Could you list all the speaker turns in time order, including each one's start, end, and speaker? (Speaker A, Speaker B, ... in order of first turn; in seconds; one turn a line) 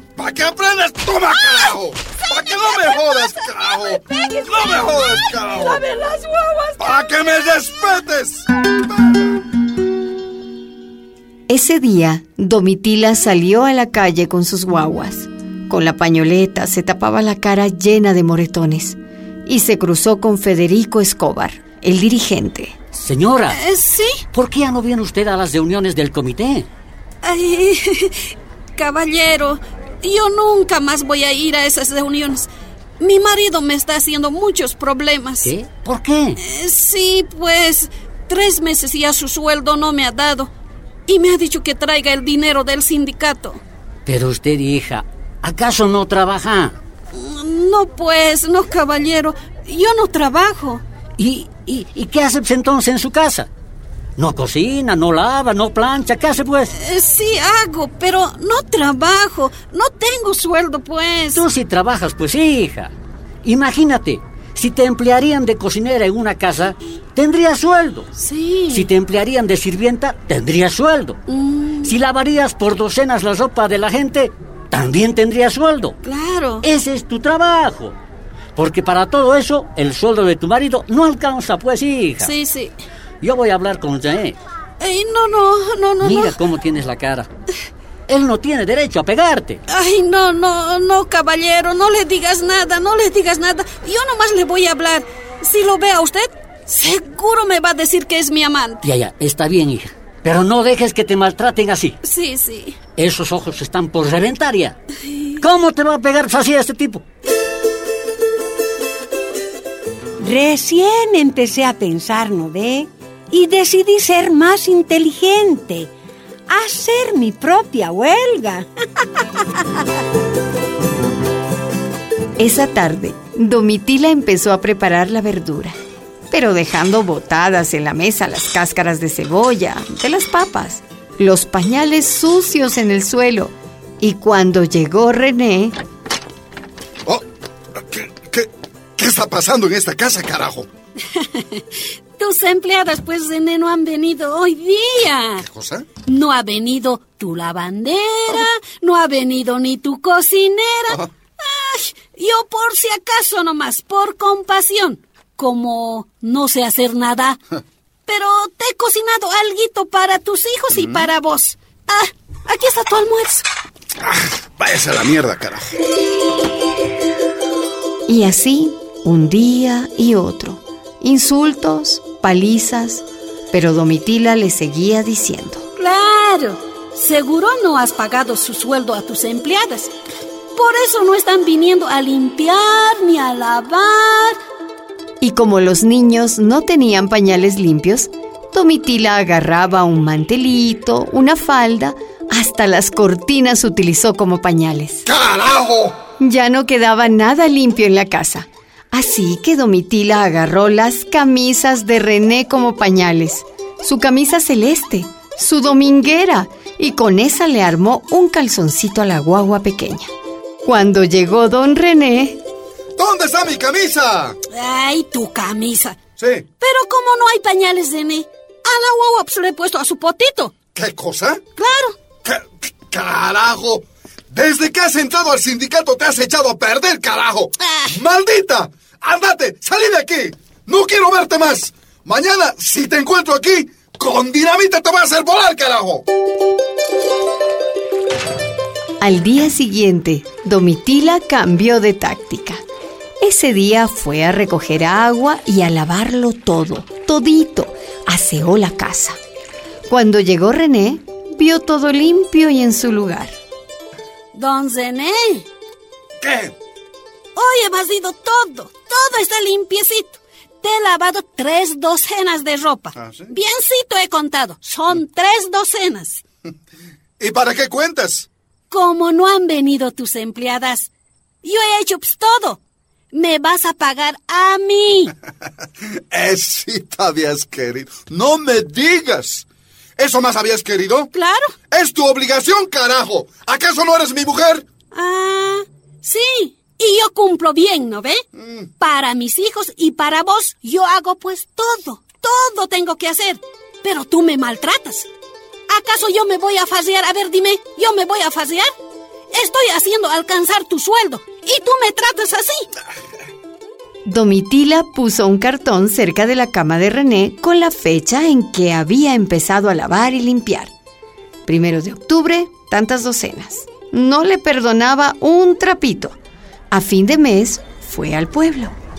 Speaker A: 0.2-5.8
Speaker B: 1.4-6.9
Speaker A: 6.8-8.5
Speaker C: 11.5-22.8
Speaker D: 22.9-23.6
Speaker B: 23.5-24.2
Speaker D: 24.3-26.7
Speaker B: 27.2-35.5
Speaker D: 35.4-36.4
Speaker B: 36.4-40.5
Speaker B: 41.1-43.6
Speaker D: 44.1-46.8
Speaker B: 47.1-50.8
Speaker D: 51.2-53.5
Speaker D: 54.2-56.7
Speaker B: 56.7-61.4
Speaker D: 61.3-62.9
Speaker D: 63.4-68.1
Speaker B: 68.2-68.9
Speaker D: 68.7-71.2
Speaker B: 71.3-72.0
Speaker D: 71.8-76.0
Speaker B: 76.0-76.7
Speaker D: 76.6-78.0
Speaker D: 78.5-82.3
Speaker B: 82.2-82.8
Speaker D: 83.2-84.4
Speaker B: 84.8-86.4
Speaker D: 86.0-87.3
Speaker D: 88.1-89.6
Speaker B: 89.7-98.9
Speaker D: 98.8-102.0
Speaker B: 102.0-102.8
Speaker D: 103.0-104.8
Speaker B: 105.1-105.4
Speaker D: 105.4-107.0
Speaker E: 110.2-115.9
Speaker E: 116.5-118.7
Speaker C: 122.4-125.8
Speaker C: 126.3-135.8
Speaker A: 137.8-140.7
Speaker B: 141.1-141.6
Speaker B: 142.2-145.5
Speaker A: 145.5-145.9
Speaker B: 146.0-157.4
Speaker B: 158.1-163.4
Speaker A: 160.7-161.1
Speaker A: 164.0-165.8
Speaker C: 168.1-175.7
Speaker B: 175.8-179.9
Speaker B: 180.6-184.4
Speaker C: 185.2-195.1
Speaker A: 195.1-196.0
Speaker C: 196.2-210.1
Speaker C: 210.6-212.4
Speaker A: 213.0-214.4
Speaker B: 214.5-216.0
Speaker A: 216.2-216.5
Speaker B: 216.6-220.5
Speaker A: 220.8-221.4
Speaker B: 221.6-222.0
Speaker A: 222.2-236.0
Speaker B: 227.6-227.9
Speaker C: 239.0-242.6
Speaker C: 243.2-249.2
Speaker C: 249.9-253.4
Speaker B: 254.3-255.5
Speaker A: 256.2-256.5
Speaker B: 257.4-266.2
Speaker A: 263.0-263.3
Speaker A: 267.2-268.3
Speaker B: 268.7-270.9
Speaker B: 271.4-272.6
Speaker B: 273.1-275.1
Speaker A: 276.1-279.5
Speaker A: 280.0-281.1
Speaker B: 281.1-281.5
Speaker A: 281.7-284.7
Speaker B: 284.9-288.2
Speaker A: 288.4-288.7
Speaker B: 288.8-295.1
Speaker B: 295.7-298.7
Speaker B: 299.3-302.7
Speaker C: 304.1-310.7
Speaker C: 311.5-316.2
Speaker C: 316.7-318.8